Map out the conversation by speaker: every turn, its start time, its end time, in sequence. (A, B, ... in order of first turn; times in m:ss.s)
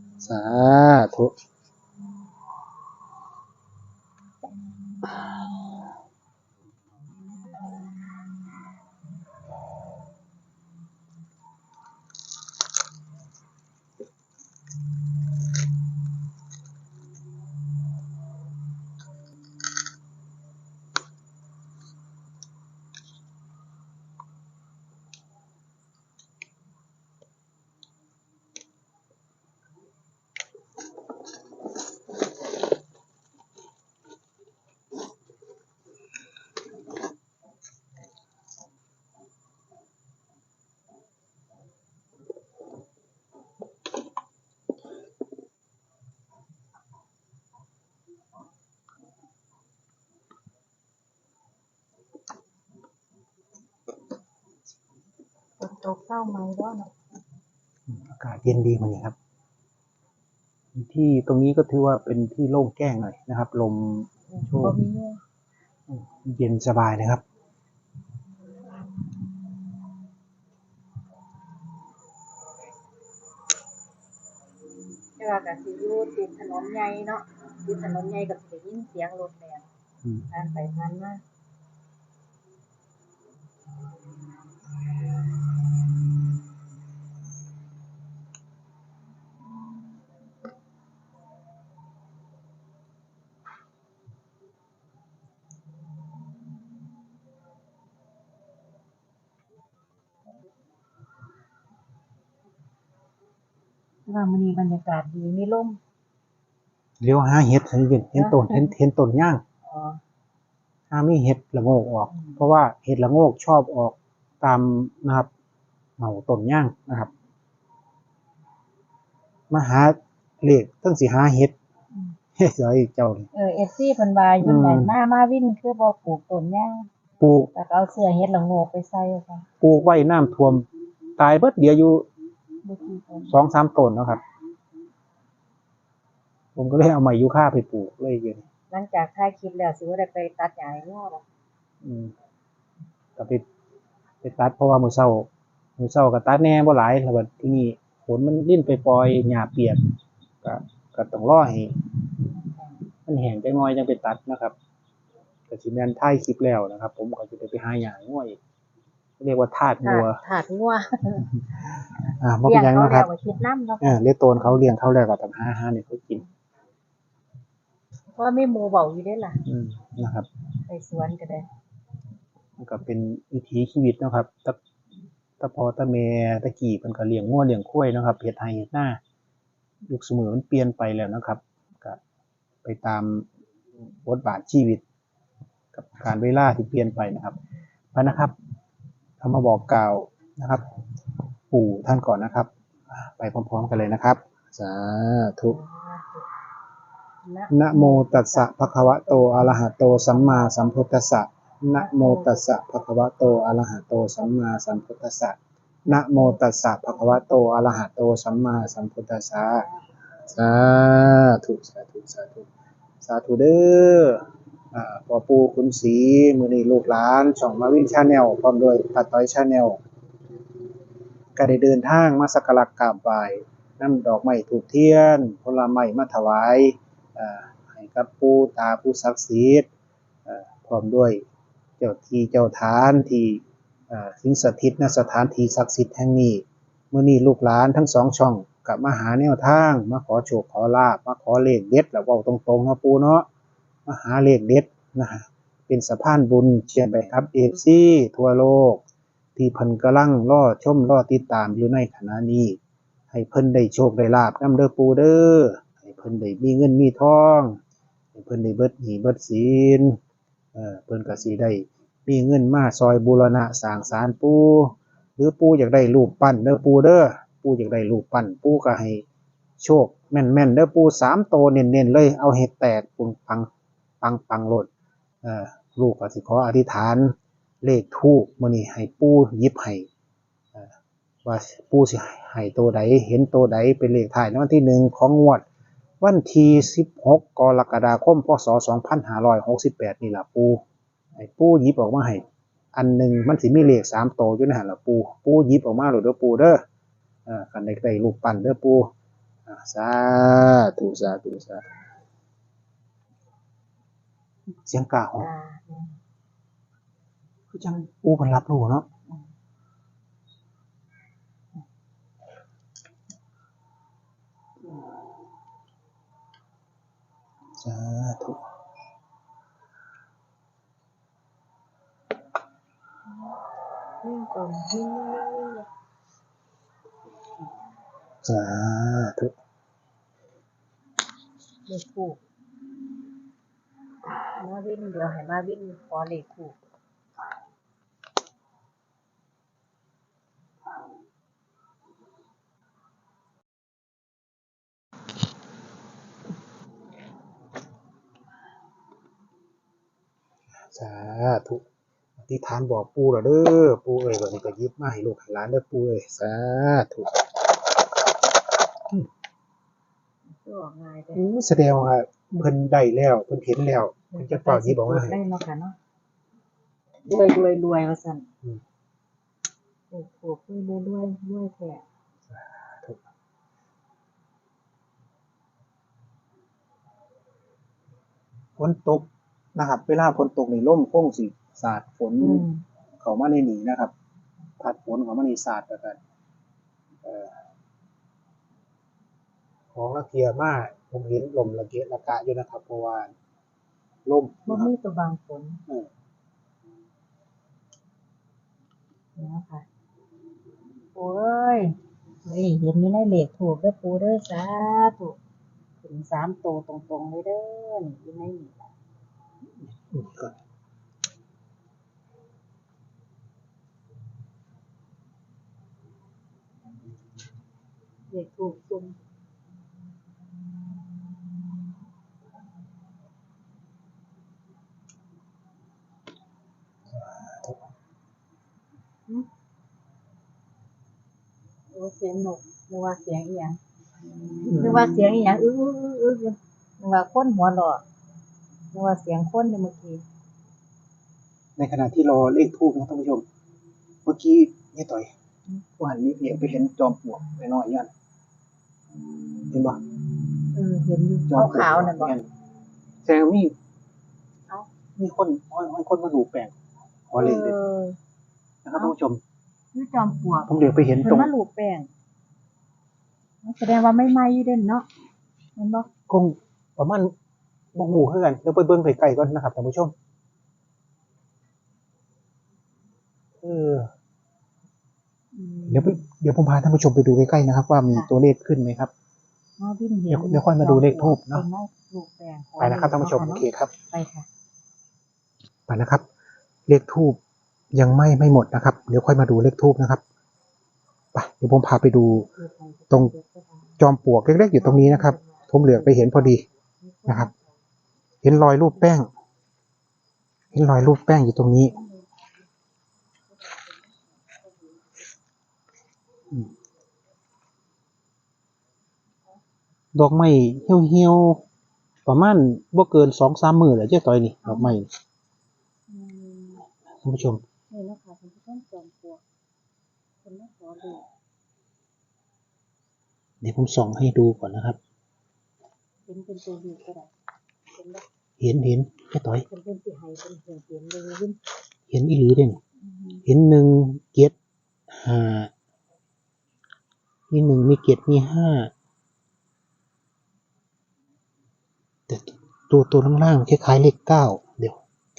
0:00.2-0:01.4 A
0:55.6-0:56.9 B
0:57.9-0:59.2 A
1:00.7-1:04.8 A
1:04.3-1:05.2 B
1:05.9-1:07.2 A
1:15.2-1:19.7 B
1:20.3-1:21.2 B
1:44.1-1:45.8 B
1:47.0-1:49.4 A
1:48.1-1:48.7 B
1:49.6-1:50.0 B
1:50.9-1:55.3 A
1:52.1-1:52.4 B
1:56.0-1:57.1 A
1:59.5-2:01.5 A
2:02.4-2:03.3 A
2:03.3-2:06.9 B
2:04.4-2:04.9 A
2:07.2-2:07.5 A
2:07.5-2:09.5 B
2:09.6-2:10.6 A
2:11.2-2:12.1 A
2:12.6-2:13.4 B
2:13.3-2:14.2 A
2:16.6-2:18.4 A
2:18.7-2:21.2 B
2:21.8-2:22.1 A
2:23.2-2:23.4 A
2:24.2-2:29.8 A
2:30.4-2:31.8 A
2:33.0-2:34.5 A
2:35.5-2:38.4 A
2:39.2-2:40.2 A
2:39.8-2:41.3 B
2:42.2-2:43.1 A
2:42.4-2:44.0 B
2:43.8-2:46.2 A
2:48.1-2:49.4 B
2:49.4-2:50.3 A
2:50.7-2:51.4 B
2:52.6-2:54.6 A
2:55.4-2:59.0 A
2:59.9-3:02.0 A
3:02.6-3:03.3 A
3:03.9-3:04.8 A
3:05.7-3:07.4 A
3:07.9-3:08.3 A
3:09.2-3:10.7 A
3:11.5-3:15.6 A
3:15.5-3:16.3 B
3:17.2-3:20.8 B
3:17.5-3:29.6 A
3:21.7-3:22.4 B
3:25.9-3:26.4 B
3:29.3-3:30.4 B
3:30.3-3:32.5 A
3:33.0-3:39.8 A
3:41.4-3:49.7 A
3:50.2-3:51.2 A
3:51.8-4:03.3 A
4:03.9-4:08.8 A
4:09.4-4:12.6 A
4:13.1-4:17.6 A
4:18.1-4:20.0 A
4:20.5-4:29.0 A
4:29.6-4:33.5 A
4:34.0-4:34.7 A
4:35.2-4:39.9 A
4:41.2-4:45.4 A
4:46.0-4:50.6 A
4:51.2-4:52.2 A
4:52.7-4:56.6 A
4:57.2-4:58.9 A
4:59.4-5:01.7 A
5:04.6-5:05.3 A
5:05.2-5:05.9 B
5:07.5-5:08.8 A
5:17.6-5:18.4 A
5:24.0-5:25.7 B
5:28.2-5:29.3 A
5:31.7-5:32.2 B
5:34.4-5:36.6 B
5:50.7-5:51.6 A
5:52.2-5:57.4 A
6:00.3-6:01.2 B
6:01.1-6:05.2 A
6:04.1-6:05.8 B
6:07.0-6:08.2 B
6:09.9-6:11.8 B
6:12.3-6:13.0 A
6:18.6-6:22.4 A
6:22.2-6:22.6 B
6:23.0-6:23.9 A
6:24.6-6:26.0 A
6:27.0-6:27.4 A
6:29.7-6:33.1 A
6:34.0-6:34.7 A
6:34.4-6:35.6 B
6:39.2-6:39.6 B
6:40.9-6:45.2 B
6:45.8-6:48.7 B
6:49.6-6:50.4 A
6:58.1-6:59.0 B
7:07.0-7:07.6 A
7:11.7-7:13.6 B
7:14.3-7:17.8 B
7:14.4-7:14.8 A
7:18.7-7:20.0 B
7:21.6-7:23.2 A
7:24.0-7:25.1 A
7:25.8-7:27.9 A
7:29.5-7:29.8 A
7:30.5-7:32.1 B
7:31.3-7:32.2 A
7:33.0-7:33.5 A
7:35.0-7:36.5 A
7:37.1-7:37.6 A
7:37.2-7:38.0 B
7:38.6-7:39.2 A
7:39.7-7:41.9 B
7:40.5-7:41.3 A
7:43.4-7:44.9 B
7:45.6-7:45.9 B
7:46.1-7:47.1 A
7:47.7-7:49.9 A
7:53.4-7:53.9 A
7:55.3-7:56.0 B
7:55.7-7:58.9 A
7:59.6-8:04.3 B
8:00.1-8:01.4 A
8:02.6-8:03.7 A
8:05.7-8:06.0 A
8:06.7-8:07.2 A
8:07.7-8:10.0 A
8:11.1-8:12.3 A
8:12.4-8:13.8 B
8:13.8-8:16.4 A
8:14.6-8:17.6 B
8:18.2-8:19.1 A
8:20.5-8:21.7 A
8:21.6-8:22.5 B
8:23.3-8:25.0 B
8:29.9-8:31.4 A
8:32.0-8:34.9 A
8:34.4-8:34.8 B
8:35.9-8:36.6 B
8:37.0-8:37.4 A
8:37.7-8:39.2 B
8:40.2-8:41.0 B
8:43.4-8:44.8 A
8:46.1-8:47.1 B
8:47.7-8:48.0 B
8:48.4-8:49.4 A
8:49.4-8:51.4 B
8:51.9-8:52.6 A
8:52.8-8:53.2 B
8:53.2-8:54.3 A
8:54.9-8:55.5 A
8:57.3-8:58.7 A
9:02.1-9:04.8 A